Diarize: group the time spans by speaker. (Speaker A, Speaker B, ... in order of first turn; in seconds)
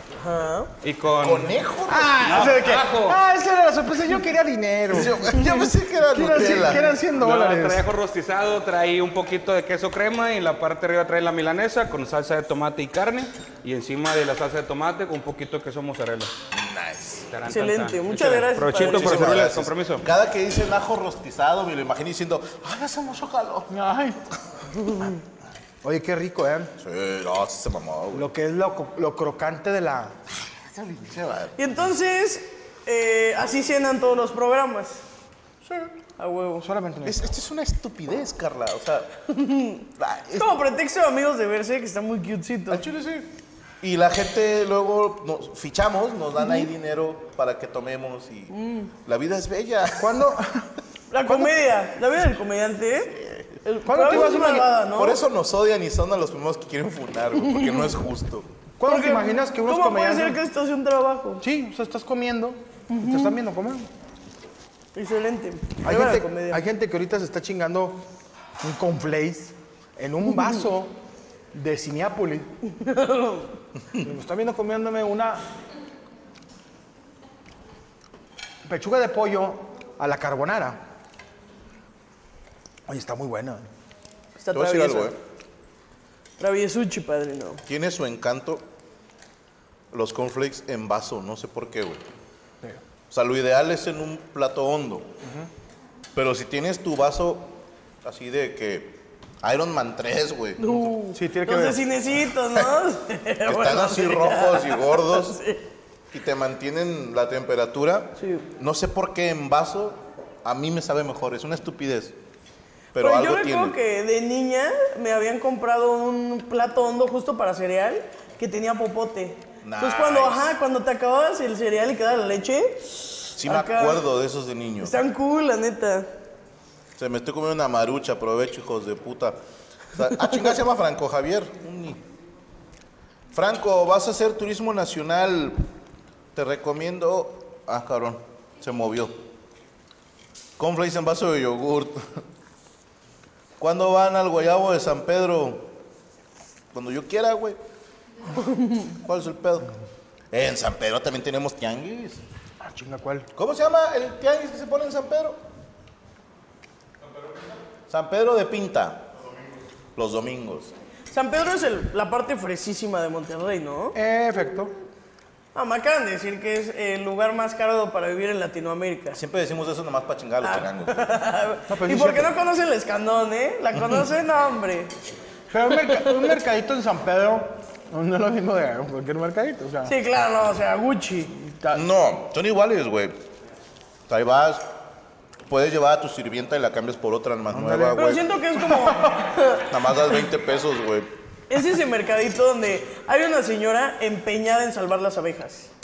Speaker A: 0.2-0.7, 17.5-19.4, 31.6-35.0, 36.2-36.7, 39.3-42.9, 48.5-48.9, 51.1-55.2, 58.9-61.4, 62.9-63.4, 65.0-66.6, 72.8-73.5, 84.4-85.2, 86.4-87.6, 100.6-105.6, 108.2-108.5, 113.0-124.0, 124.8-126.1, 161.1-164.0, 165.6-169.2, 170.4-174.9, 175.9-176.3, 179.9-181.3, 188.0-189.7, 191.5-195.7
Speaker B: 0.8-1.6, 2.2-3.2, 7.1-16.3, 17.3-20.1
Speaker C: 1.2-2.6, 4.9-6.9, 16.5-17.3, 18.8-23.7, 26.8-28.3, 30.5-31.6, 35.6-35.9, 37.0-39.1, 40.0-40.6, 42.7-50.3, 53.1-53.6, 54.9-58.5, 84.5-85.2, 87.7-88.7, 89.9-92.0, 93.1-95.1, 96.1-100.9, 103.5-105.4, 106.1-112.2, 112.9-113.8, 119.6-120.5, 123.4-125.0, 127.0-129.4, 129.9-132.0, 133.3-135.7, 136.3-139.2, 140.6-142.2, 143.6-145.7, 146.7-147.6, 148.9-149.7, 150.3-152.2, 153.3-155.4, 157.9-159.1, 160.0-160.7, 169.1-171.2, 181.7-183.2, 184.1-184.7, 185.5-188.3, 189.6-191.1
Speaker D: 1.9-5.6, 6.1-7.9, 23.7-24.2, 25.8-26.7, 28.1-30.2, 36.6-37.3, 50.0-50.7, 51.2-51.5, 53.9-54.7, 58.8-60.4, 61.4-63.9, 65.8-68.0, 68.6-70.9, 71.5-72.5, 74.0-75.4, 78.7-80.8, 82.9-83.7, 101.1-101.8, 152.6-153.3, 163.9-164.7, 171.7-172.3, 175.5-179.9, 181.5-181.8, 187.5-188.0, 188.8-189.2